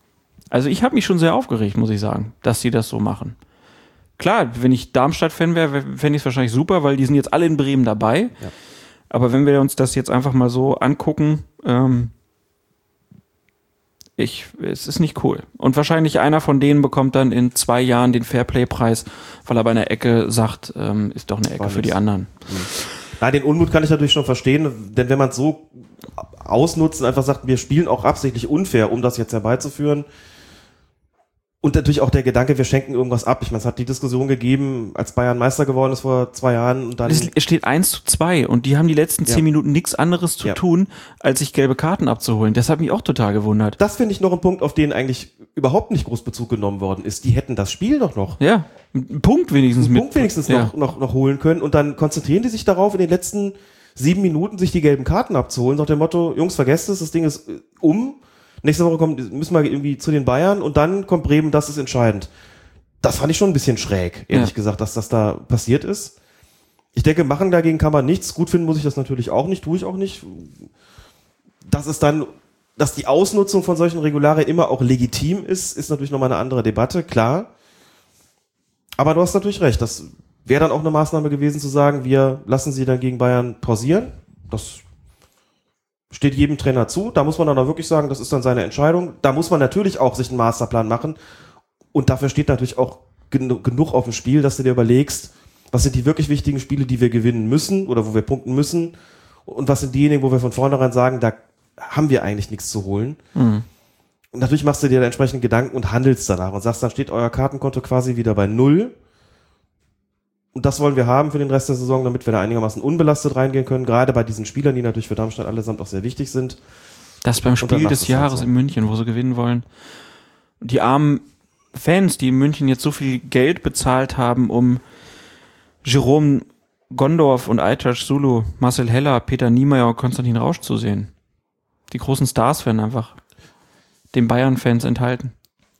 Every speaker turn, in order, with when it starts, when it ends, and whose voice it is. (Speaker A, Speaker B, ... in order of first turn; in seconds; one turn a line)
Speaker A: 0.5-3.4
Speaker A: 4.2-8.4
Speaker A: 9.1-12.1
Speaker A: 14.2-22.6
Speaker B: 21.6-30.1
Speaker B: 31.6-37.3
Speaker A: 37.0-43.8
Speaker B: 43.8-48.4
Speaker A: 48.4-50.7
Speaker B: 49.8-62.3
Speaker B: 63.0-66.1
Speaker B: 67.0-70.7
Speaker B: 71.7-77.5
Speaker B: 79.0-84.8
Speaker B: 86.1-91.2
Speaker B: 91.9-99.0
Speaker B: 99.5-103.2
Speaker A: 103.3-103.7
Speaker B: 104.3-109.0
Speaker B: 110.5-116.6
Speaker A: 117.2-119.7
Speaker B: 117.6-118.5
Speaker A: 120.6-124.8
Speaker A: 125.8-131.1
Speaker A: 131.9-133.2
Speaker A: 134.1-135.3